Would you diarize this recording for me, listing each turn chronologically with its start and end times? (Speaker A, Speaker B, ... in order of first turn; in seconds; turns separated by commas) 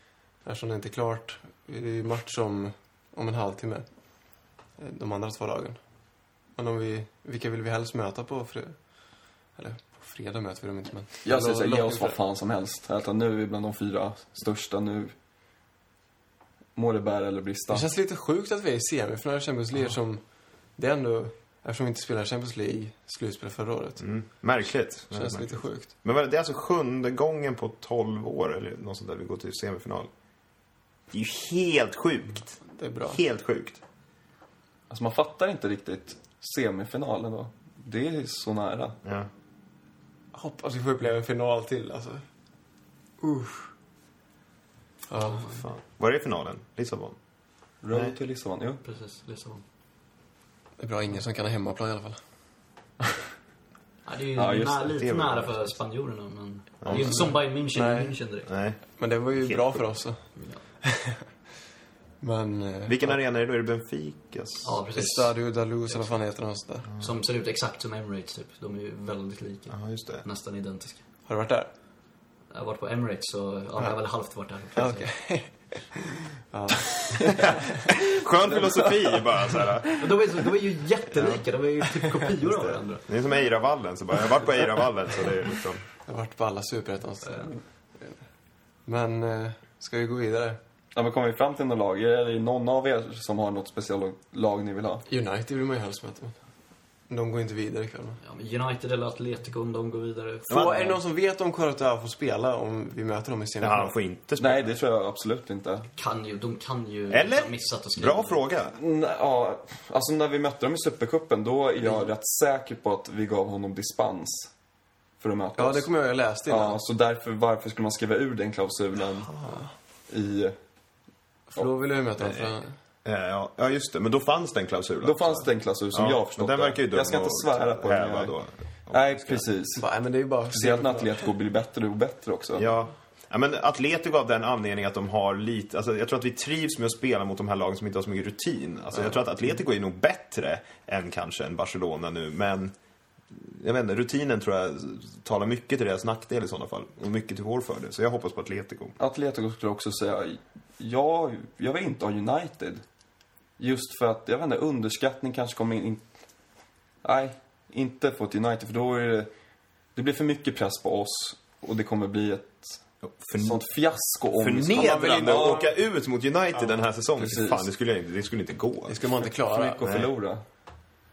Speaker A: 0.4-3.9, Speaker A: 4.8-5.8, Speaker A: 6.5-12.2, Speaker B: 11.2-15.1, Speaker B: 16.8-17.9, Speaker A: 17.7-20.2, Speaker A: 20.8-24.1, Speaker C: 24.0-30.1, Speaker A: 25.1-25.9, Speaker C: 31.1-33.8, Speaker A: 32.7-33.2, Speaker B: 34.9-39.0, Speaker A: 40.3-42.2, Speaker A: 43.2-43.7, Speaker A: 45.1-45.6, Speaker D: 45.2-45.6, Speaker C: 45.4-47.2, Speaker B: 47.8-48.8, Speaker D: 48.8-49.6, Speaker A: 50.8-52.2, Speaker D: 54.0-58.5, Speaker B: 54.4-55.2, Speaker C: 55.0-55.4, Speaker C: 56.8-57.2, Speaker A: 57.0-58.2, Speaker C: 58.5-58.8, Speaker A: 59.0-60.3, Speaker C: 59.4-59.8, Speaker A: 60.8-61.3, Speaker A: 62.2-63.2, Speaker C: 62.9-64.8, Speaker D: 64.6-65.4, Speaker A: 65.0-66.9, Speaker D: 65.9-66.2, Speaker D: 67.0-71.0, Speaker C: 69.7-70.2, Speaker A: 71.3-71.7, Speaker D: 72.5-75.1, Speaker A: 74.8-78.0, Speaker C: 78.0-80.1, Speaker A: 78.9-79.6, Speaker D: 80.0-83.1, Speaker C: 83.1-85.8, Speaker A: 86.0-88.2, Speaker A: 88.8-90.6, Speaker B: 90.9-95.1, Speaker A: 95.1-96.3, Speaker A: 97.1-98.2, Speaker D: 98.2-100.8, Speaker A: 100.5-104.0, Speaker C: 100.5-101.0, Speaker C: 103.6-104.7, Speaker B: 104.4-105.9, Speaker D: 106.0-108.4, Speaker C: 107.1-108.8, Speaker B: 108.8-114.5, Speaker B: 115.2-115.9, Speaker A: 115.6-116.8, Speaker B: 116.5-119.5, Speaker C: 119.3-119.6, Speaker B: 120.1-120.6, Speaker A: 121.5-122.8, Speaker C: 123.0-129.4, Speaker B: 125.0-128.3, Speaker B: 128.9-129.9, Speaker A: 129.8-131.3, Speaker B: 130.5-132.7, Speaker C: 132.6-142.7, Speaker C: 143.3-149.0, Speaker B: 149.0-152.8, Speaker B: 153.6-156.0, Speaker B: 157.0-159.3, Speaker B: 159.9-162.8, Speaker C: 163.0-163.6, Speaker B: 163.4-165.7, Speaker C: 164.4-169.1, Speaker A: 164.8-165.7, Speaker B: 167.2-167.7, Speaker A: 168.9-169.8, Speaker B: 169.4-170.4, Speaker C: 169.8-170.1